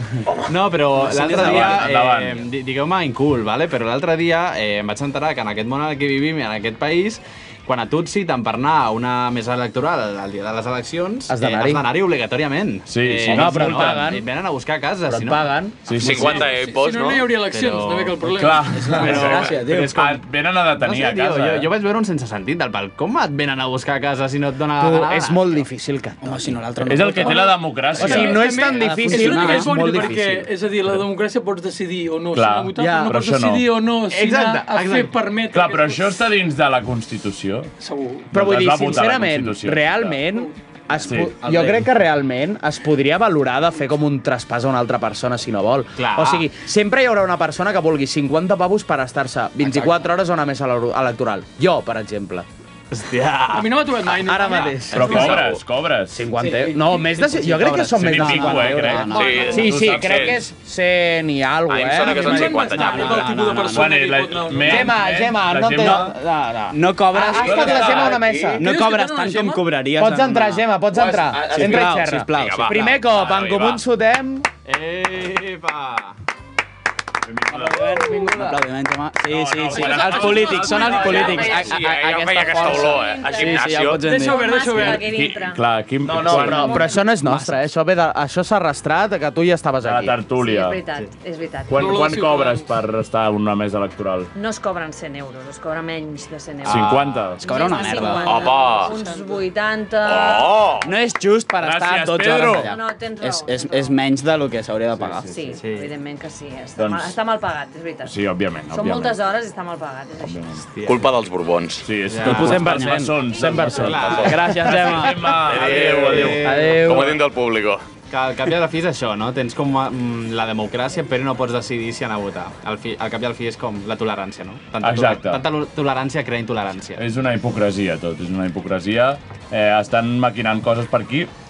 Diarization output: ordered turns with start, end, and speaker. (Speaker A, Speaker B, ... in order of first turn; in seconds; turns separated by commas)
Speaker A: 0.5-15.4, Speaker B: 0.9-1.9, Speaker C: 1.1-2.5, Speaker D: 11.3-11.8, Speaker C: 12.9-14.1, Speaker D: 13.2-14.2, Speaker D: 15.1-16.0, Speaker C: 15.8-16.5, Speaker E: 16.0-17.3, Speaker A: 16.0-16.4, Speaker F: 16.1-18.9, Speaker A: 17.5-20.2, Speaker C: 18.4-21.7, Speaker B: 18.7-20.0, Speaker A: 20.8-25.6, Speaker D: 24.8-26.5, Speaker B: 26.2-30.0, Speaker C: 26.8-28.4, Speaker F: 27.2-36.3, Speaker D: 27.9-30.5, Speaker C: 32.3-33.6, Speaker D: 32.8-33.1, Speaker A: 34.1-35.1, Speaker D: 34.2-34.6, Speaker C: 35.5-37.7, Speaker F: 37.8-38.3, Speaker C: 38.3-40.2, Speaker D: 38.3-52.5, Speaker C: 41.0-41.4, Speaker A: 41.1-41.9, Speaker A: 46.0-46.4, Speaker A: 52.9-53.7, Speaker F: 53.5-55.4, Speaker D: 54.2-55.4, Speaker E: 54.9-55.6, Speaker C: 54.9-56.1, Speaker D: 56.1-62.6, Speaker F: 56.4-56.8, Speaker B: 57.0-59.8, Speaker C: 57.9-60.4, Speaker E: 59.1-60.4, Speaker E: 61.7-63.3, Speaker F: 62.0-64.9, Speaker B: 62.7-64.1, Speaker C: 63.7-66.1, Speaker D: 64.6-68.7, Speaker B: 65.8-66.0, Speaker B: 66.7-70.6, Speaker C: 67.4-68.3, Speaker F: 68.6-69.7, Speaker D: 70.0-74.5, Speaker E: 70.9-73.8, Speaker B: 71.5-73.0, Speaker A: 74.6-76.2, Speaker C: 77.3-77.9, Speaker D: 77.5-78.6, Speaker B: 77.7-85.0, Speaker C: 79.2-81.7, Speaker G: 80.0-80.6, Speaker E: 80.6-84.0, Speaker G: 82.9-83.6, Speaker F: 84.0-85.1, Speaker G: 84.1-87.0, Speaker C: 84.8-86.9, Speaker D: 86.0-90.2, Speaker B: 86.2-87.6, Speaker C: 89.8-90.8, Speaker G: 90.3-92.0, Speaker C: 91.7-94.3, Speaker F: 91.8-92.7, Speaker G: 94.3-100.8, Speaker C: 96.6-97.4, Speaker A: 96.7-97.3, Speaker B: 97.4-98.4, Speaker F: 98.2-99.4, Speaker E: 98.2-98.9, Speaker E: 100.0-100.9, Speaker B: 100.8-105.5, Speaker C: 101.6-102.7, Speaker G: 102.4-104.0, Speaker G: 105.2-110.7, Speaker A: 105.5-105.9, Speaker C: 106.8-107.2, Speaker C: 108.0-109.2, Speaker C: 110.2-110.6, Speaker A: 110.7-111.1, Speaker E: 110.8-111.9, Speaker C: 111.8-116.8, Speaker A: 112.1-112.8, Speaker D: 112.2-115.2, Speaker B: 112.3-113.1, Speaker A: 113.4-116.8, Speaker G: 113.5-113.8, Speaker B: 114.2-115.2, Speaker E: 115.2-117.8, Speaker D: 116.4-117.2, Speaker A: 118.1-127.0, Speaker C: 124.8-125.4, Speaker C: 127.0-131.3